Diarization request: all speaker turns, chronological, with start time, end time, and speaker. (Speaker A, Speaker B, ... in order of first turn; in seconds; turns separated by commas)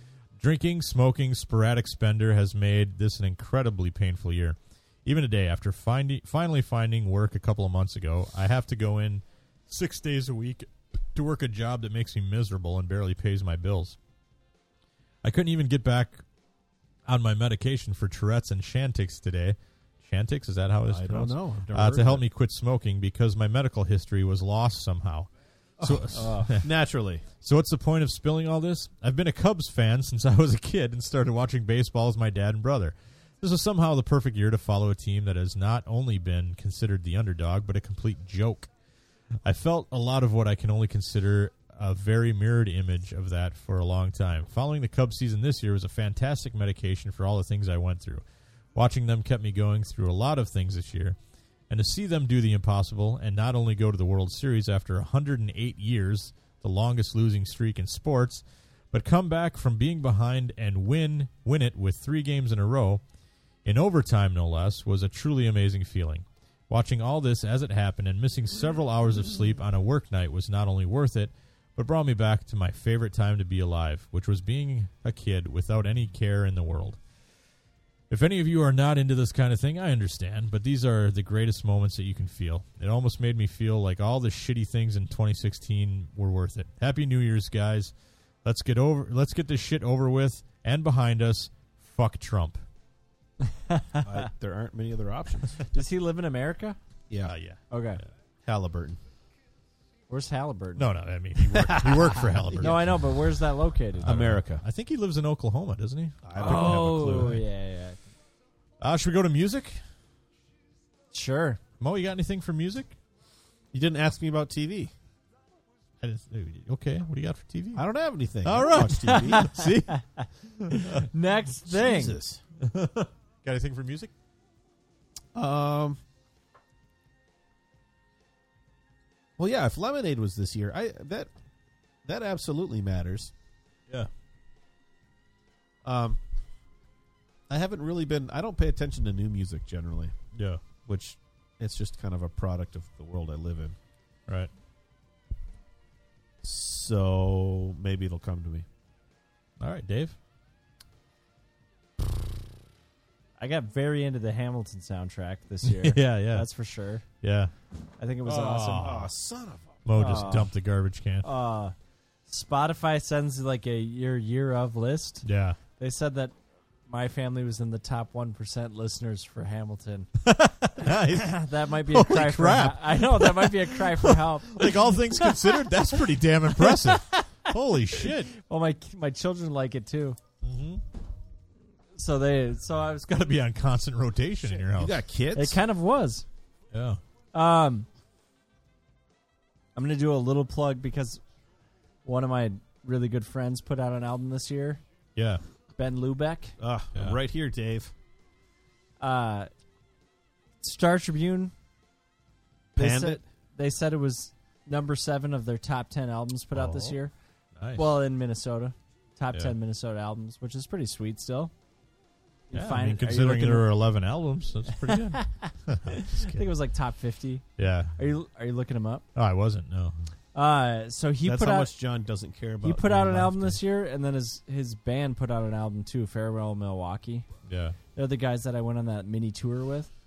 Speaker A: 0.4-14.0, Speaker A: 15.2-16.2, Speaker A: 17.1-25.3, Speaker B: 20.9-22.2, Speaker B: 25.8-27.3, Speaker A: 25.8-26.7, Speaker C: 26.1-26.6, Speaker A: 27.3-38.7, Speaker A: 39.4-48.2, Speaker A: 48.8-51.2, Speaker A: 51.7-63.0, Speaker A: 63.6-77.0, Speaker A: 78.1-92.6, Speaker C: 93.5-94.3, Speaker B: 94.0-95.6, Speaker C: 95.7-96.8, Speaker A: 97.2-97.6, Speaker C: 97.7-98.0, Speaker B: 98.5-99.0, Speaker C: 100.1-100.9, Speaker A: 100.8-103.0, Speaker B: 101.5-102.8, Speaker C: 102.6-104.2, Speaker B: 104.0-104.6, Speaker A: 104.0-107.4, Speaker B: 106.2-107.4, Speaker C: 106.4-108.0, Speaker A: 108.8-109.8, Speaker C: 111.1-111.6, Speaker A: 111.8-113.0, Speaker B: 113.7-114.9, Speaker A: 116.0-117.8, Speaker B: 117.8-119.7, Speaker A: 118.4-121.1, Speaker C: 118.8-122.2, Speaker B: 121.7-122.4, Speaker A: 122.6-124.1, Speaker B: 125.3-126.0, Speaker B: 129.4-131.3, Speaker B: 132.1-133.3, Speaker B: 135.8-136.2, Speaker B: 137.5-140.2, Speaker A: 140.3-140.6, Speaker B: 140.9-143.8, Speaker B: 146.4-148.7, Speaker A: 149.6-150.2, Speaker C: 153.4-157.0, Speaker A: 155.6-156.5, Speaker A: 157.2-157.5, Speaker C: 158.0-159.0, Speaker A: 158.2-159.1, Speaker B: 158.8-159.8, Speaker A: 159.8-161.3, Speaker C: 159.9-160.5, Speaker C: 161.2-161.8, Speaker C: 162.3-165.3, Speaker A: 165.2-165.6, Speaker C: 165.8-166.3, Speaker C: 166.9-170.1, Speaker A: 170.2-178.3, Speaker C: 170.9-175.7, Speaker C: 176.5-180.2, Speaker A: 180.4-180.8, Speaker C: 181.9-183.1, Speaker A: 182.9-185.0, Speaker B: 184.8-185.6, Speaker C: 185.3-186.2, Speaker A: 186.7-187.0, Speaker C: 187.3-187.9, Speaker C: 189.8-191.2, Speaker C: 192.1-194.8, Speaker A: 195.2-195.4, Speaker C: 195.8-196.6, Speaker B: 196.6-197.9, Speaker C: 199.0-199.5, Speaker C: 200.6-201.5, Speaker B: 202.8-203.2, Speaker C: 202.8-207.1, Speaker A: 206.5-207.0, Speaker A: 207.6-207.8, Speaker C: 207.8-211.5, Speaker C: 212.5-213.7, Speaker A: 212.5-216.5, Speaker C: 214.7-217.4, Speaker A: 217.6-217.9, Speaker C: 218.0-219.1, Speaker A: 219.2-219.9, Speaker C: 220.3-221.7, Speaker B: 221.2-223.5, Speaker C: 222.6-227.3, Speaker A: 227.5-227.8, Speaker C: 227.9-229.9